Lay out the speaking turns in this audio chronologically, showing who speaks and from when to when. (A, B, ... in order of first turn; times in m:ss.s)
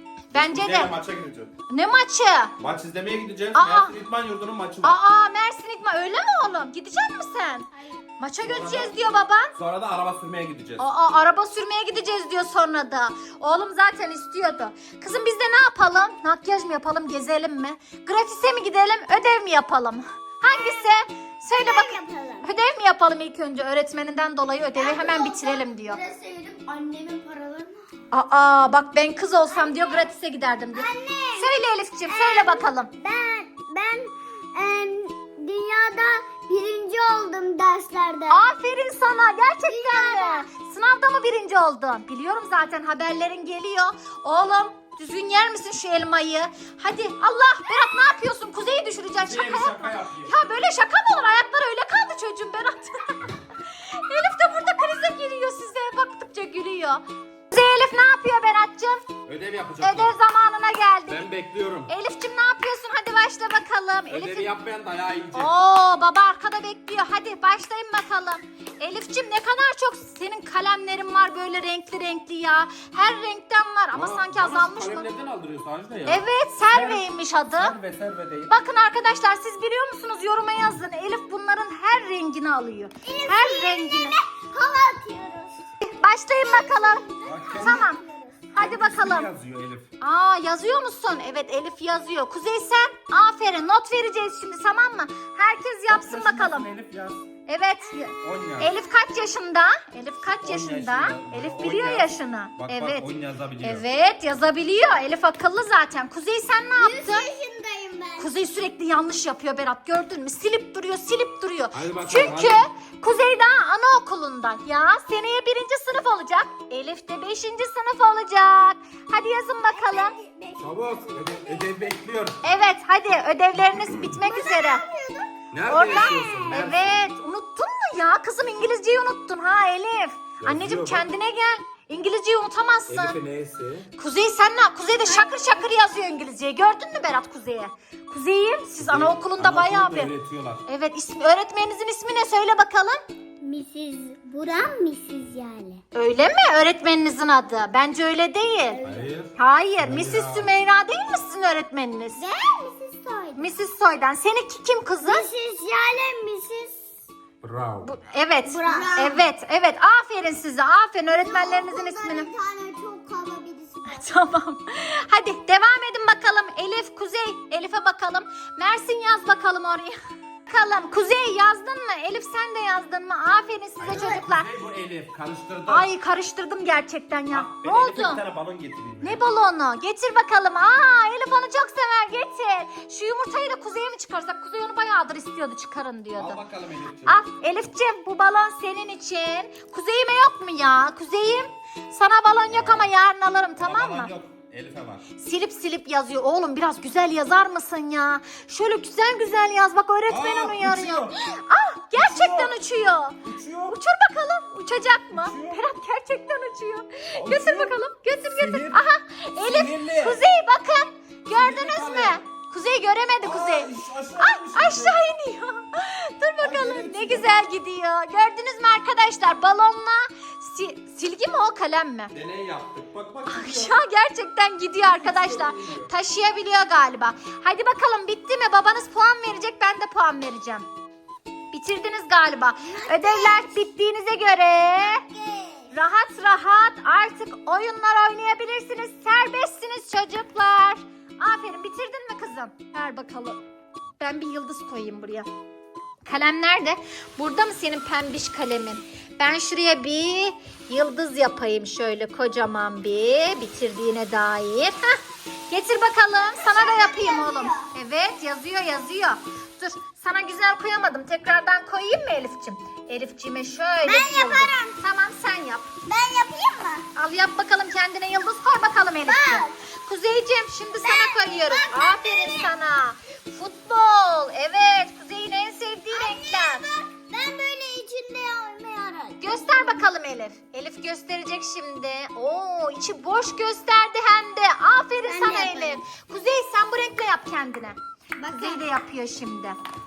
0:00.3-0:00.9 A
0:00.3-0:01.5 B
0:01.7-0:02.5 A
0:02.6-0:05.0 B
0:03.5-0:04.0 A
0:04.8-0:07.7 A
0:08.2-0:09.5 A
0:08.4-0:08.9 B
0:09.5-0:10.8 B
0:10.8-0:26.0 A
0:21.5-0:22.5 C
0:24.8-0:27.8 C
0:28.1-0:32.9 A
0:29.5-0:30.1 C
0:30.7-0:38.4 C
0:38.3-0:59.1 A
0:39.7-0:40.5 C
0:49.2-0:50.4 B
0:59.2-1:00.1 B
0:59.8-1:01.2 A
1:01.1-1:01.9 B
1:01.9-1:04.5 A
1:04.1-1:05.5 B
1:05.3-1:15.1 A
1:13.9-1:18.5 B
1:16.1-1:17.8 A
1:18.5-1:24.2 A
1:23.0-1:25.6 C
1:25.8-1:27.1 A
1:26.4-1:28.4 C
1:27.2-1:27.9 B
1:27.6-1:28.0 A
1:28.5-1:29.3 A
1:28.6-1:29.9 B
1:30.0-1:36.7 A
1:35.9-1:37.2 B
1:37.5-1:43.1 A
1:38.2-1:38.7 B
1:40.4-1:43.8 B
1:43.6-1:47.3 A
1:46.8-1:48.3 C
1:48.2-2:00.1 A
1:51.7-1:52.6 B
1:59.7-2:01.8 C
2:00.6-2:02.4 B
2:02.4-2:04.8 A
2:04.2-2:06.2 C
2:05.5-2:07.0 B
2:05.7-2:13.2 A
2:10.4-2:11.1 B
2:12.9-2:13.9 B
2:14.0-2:20.1 A
2:15.0-2:15.7 C
2:18.8-2:20.6 B
2:20.6-2:23.0 A
2:23.4-2:25.8 C
2:25.9-2:28.8 A
2:28.7-2:29.1 C
2:28.8-2:30.5 B
2:29.4-2:32.2 A
2:32.2-2:33.5 C
2:33.4-2:35.3 A
2:35.0-2:36.8 C
2:37.4-2:37.9 B
2:37.8-2:42.3 A
2:38.4-2:39.2 C
2:41.2-2:44.1 C
2:43.9-2:54.5 A
2:53.8-2:55.9 B
2:53.9-2:54.2 C
2:55.7-2:58.2 A
2:57.3-2:59.2 B
2:59.0-3:06.4 A
3:06.2-3:07.2 B
3:07.0-3:14.1 A
3:12.5-3:12.9 B
3:13.6-3:15.0 B
3:15.2-3:42.1 A
3:20.1-3:21.1 B
3:21.9-3:22.5 B
3:23.2-3:23.8 B
3:25.1-3:25.6 B
3:27.1-3:28.8 B
3:29.4-3:30.2 B
3:31.3-3:32.2 B
3:33.2-3:35.0 B
3:36.4-3:37.3 B
3:42.1-3:43.8 B
3:43.3-3:50.6 A
3:44.8-3:45.9 B
3:51.5-3:55.0 A
3:52.6-3:53.6 C
3:54.8-3:55.7 C
3:55.7-4:03.4 A
4:04.0-4:05.3 A
4:06.0-4:15.0 A
4:15.5-4:25.7 A
4:16.4-4:17.7 C
4:23.8-4:24.8 C
4:25.8-4:26.9 C
4:27.0-4:36.6 A
4:29.0-4:29.6 C
4:30.8-4:32.5 C
4:35.9-4:39.9 C
4:39.2-4:47.8 A
4:45.0-4:45.8 C
4:48.2-4:48.6 C
4:48.3-4:49.6 A